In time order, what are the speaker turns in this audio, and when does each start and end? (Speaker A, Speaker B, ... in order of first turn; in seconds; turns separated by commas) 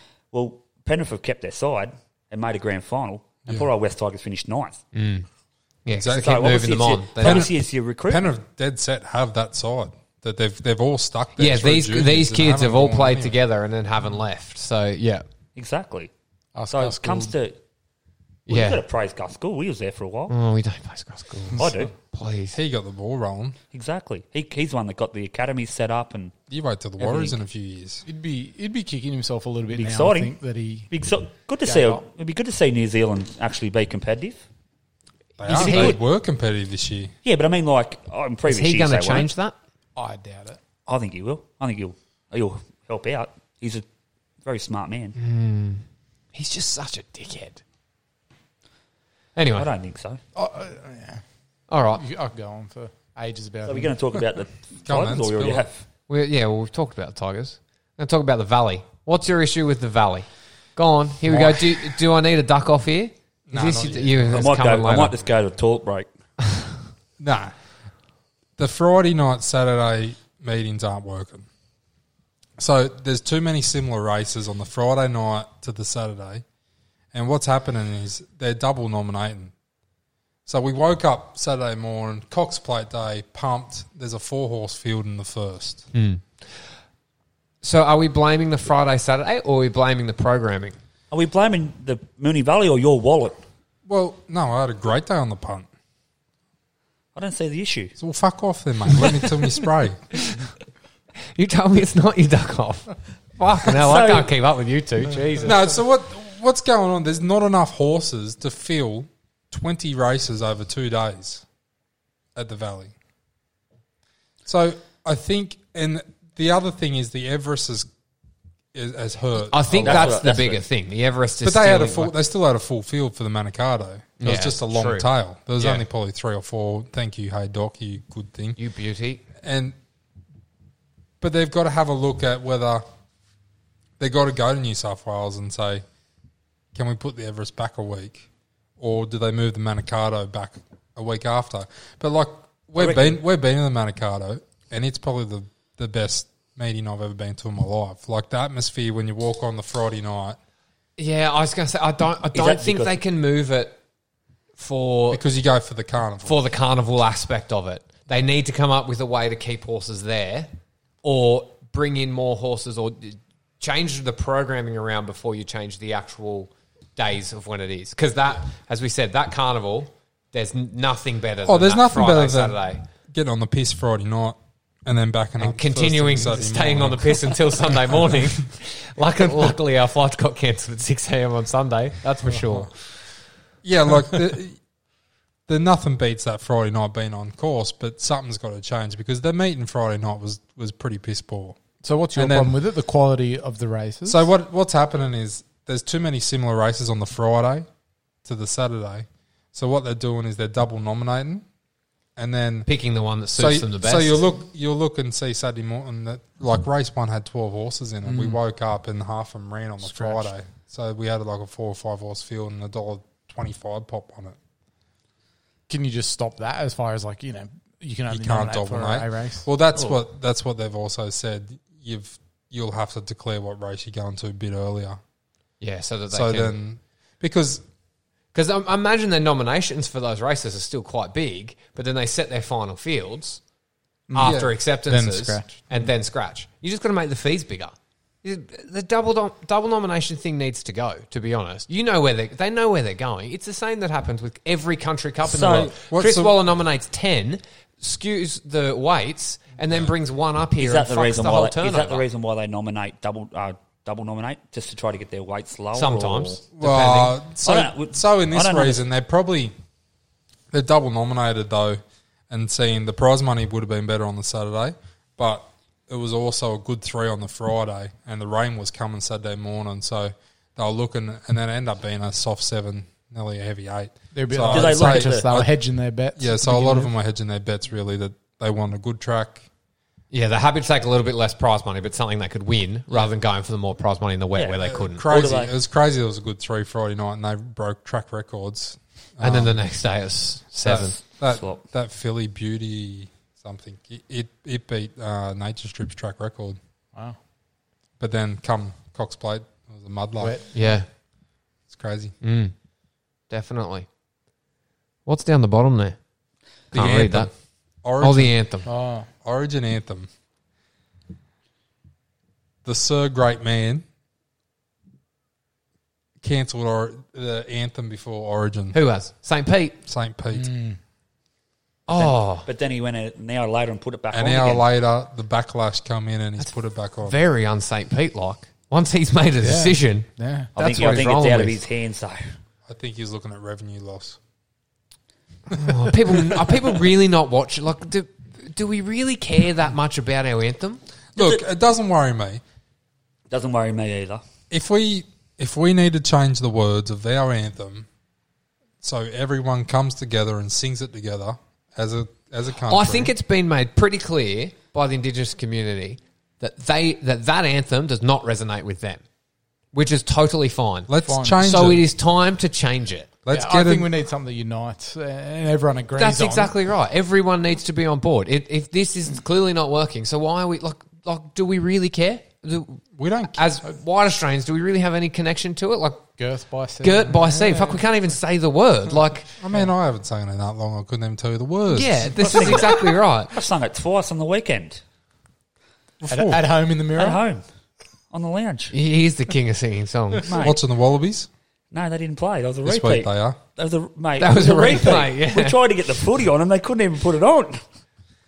Speaker A: 0.3-4.8, Speaker B: 4.9-5.3, Speaker B: 5.8-7.5, Speaker C: 5.9-6.5, Speaker A: 6.1-8.3, Speaker C: 7.2-7.5, Speaker C: 8.1-13.4, Speaker B: 11.4-15.2, Speaker A: 15.6-16.1, Speaker D: 16.6-17.3, Speaker A: 16.7-17.6, Speaker B: 18.5-18.8, Speaker A: 18.5-20.4, Speaker B: 20.3-22.6, Speaker A: 21.6-21.9, Speaker C: 22.5-23.6, Speaker A: 23.7-26.4, Speaker C: 26.5-28.1, Speaker A: 27.0-27.3, Speaker D: 28.1-30.9, Speaker A: 29.7-30.4, Speaker A: 30.9-34.4, Speaker D: 31.6-32.0, Speaker C: 35.4-37.1, Speaker B: 35.5-36.0, Speaker A: 35.5-36.0, Speaker A: 37.2-39.3, Speaker B: 38.5-39.5, Speaker D: 40.0-40.6, Speaker A: 40.9-43.9, Speaker A: 44.4-45.2, Speaker B: 45.2-45.8, Speaker B: 46.3-47.6, Speaker B: 49.4-49.7, Speaker A: 49.5-50.2, Speaker D: 50.4-51.2, Speaker B: 51.7-52.0, Speaker D: 52.0-54.0, Speaker A: 53.7-55.8, Speaker C: 54.9-55.6, Speaker B: 56.1-65.2, Speaker C: 61.3-61.8, Speaker C: 63.5-64.3, Speaker D: 63.6-64.3, Speaker A: 64.3-66.1, Speaker C: 67.2-67.5, Speaker C: 68.6-71.5, Speaker C: 72.6-76.4, Speaker C: 77.1-79.5, Speaker C: 80.5-85.9, Speaker B: 85.9-86.4, Speaker B: 87.6-90.8, Speaker A: 91.1-93.4, Speaker C: 93.9-95.7, Speaker A: 97.2-98.0, Speaker C: 98.0-100.0, Speaker B: 101.3-105.6, Speaker A: 103.8-104.3, Speaker C: 105.4-111.5, Speaker C: 112.3-112.9, Speaker C: 114.5-117.9, Speaker C: 118.7-120.2, Speaker B: 119.4-122.1, Speaker A: 119.8-120.6, Speaker C: 121.4-128.6, Speaker B: 124.2-125.8, Speaker B: 128.6-129.2, Speaker C: 129.4-129.8, Speaker C: 131.2-132.8, Speaker C: 134.0-135.8, Speaker C: 136.7-138.3, Speaker C: 138.8-150.4, Speaker A: 142.8-143.1, Speaker B: 151.0-153.8, Speaker A: 152.3-153.0, Speaker B: 154.6-155.2, Speaker C: 155.1-156.4, Speaker B: 156.2-160.5, Speaker B: 161.0-172.8, Speaker C: 171.4-178.1, Speaker B: 175.4-182.7, Speaker C: 183.6-184.6, Speaker C: 185.5-191.6, Speaker D: 191.8-194.3, Speaker C: 192.2-192.6, Speaker C: 194.1-197.7, Speaker C: 198.2-201.4, Speaker C: 202.2-202.7, Speaker B: 202.7-204.2, Speaker C: 203.4-214.4, Speaker D: 208.1-208.4, Speaker D: 209.8-210.3, Speaker D: 215.7-219.5, Speaker C: 218.1-225.0, Speaker B: 225.6-226.6, Speaker C: 226.1-227.6, Speaker B: 228.3-233.4, Speaker D: 234.1-235.9, Speaker B: 234.1-252.1, Speaker C: 234.2-234.5, Speaker A: 245.2-245.7, Speaker C: 245.8-246.3, Speaker A: 250.6-256.4, Speaker B: 255.7-257.2, Speaker C: 256.6-259.5, Speaker A: 257.4-258.8, Speaker C: 260.5-275.5, Speaker D: 274.1-276.9, Speaker A: 274.5-275.3, Speaker C: 276.2-279.4, Speaker B: 280.1-285.1, Speaker A: 284.4-285.5, Speaker C: 284.6-289.6, Speaker B: 289.2-291.0, Speaker C: 290.6-296.6, Speaker A: 291.3-291.6, Speaker C: 298.0-300.4, Speaker D: 300.2-300.8, Speaker B: 300.5-300.9, Speaker C: 301.7-302.1, Speaker B: 302.2-302.5, Speaker B: 303.3-303.9, Speaker B: 305.1-306.0, Speaker B: 306.7-307.3, Speaker C: 306.7-307.3, Speaker C: 307.8-308.4, Speaker B: 308.0-308.7, Speaker D: 308.6-309.1, Speaker C: 309.2-310.1, Speaker C: 312.6-313.8, Speaker C: 316.2-318.8, Speaker B: 318.7-319.8, Speaker C: 319.9-320.5, Speaker D: 320.3-320.8, Speaker B: 321.9-322.5, Speaker A: 321.9-324.6, Speaker C: 324.1-327.2, Speaker B: 327.1-331.6, Speaker D: 329.4-330.5, Speaker A: 330.6-332.3, Speaker C: 332.7-334.2, Speaker C: 335.5-336.6, Speaker B: 335.5-340.8, Speaker A: 341.2-341.4, Speaker C: 341.2-342.4, Speaker A: 343.3-344.2, Speaker C: 344.5-347.9, Speaker C: 348.8-353.1, Speaker B: 352.7-359.0, Speaker B: 359.7-363.1, Speaker C: 360.9-361.8, Speaker D: 361.1-361.4, Speaker C: 363.2-363.9, Speaker D: 363.3-366.5, Speaker B: 366.0-376.1, Speaker C: 373.0-373.4, Speaker D: 376.2-377.8, Speaker B: 376.8-379.3, Speaker C: 379.4-382.5, Speaker B: 381.7-383.4, Speaker A: 382.2-384.8, Speaker C: 386.0-386.4, Speaker D: 386.1-387.2, Speaker A: 387.0-387.4, Speaker A: 388.1-388.7, Speaker B: 388.7-390.5, Speaker A: 390.2-390.6, Speaker C: 390.3-391.3, Speaker A: 391.7-397.6, Speaker C: 392.6-393.4, Speaker B: 394.2-395.6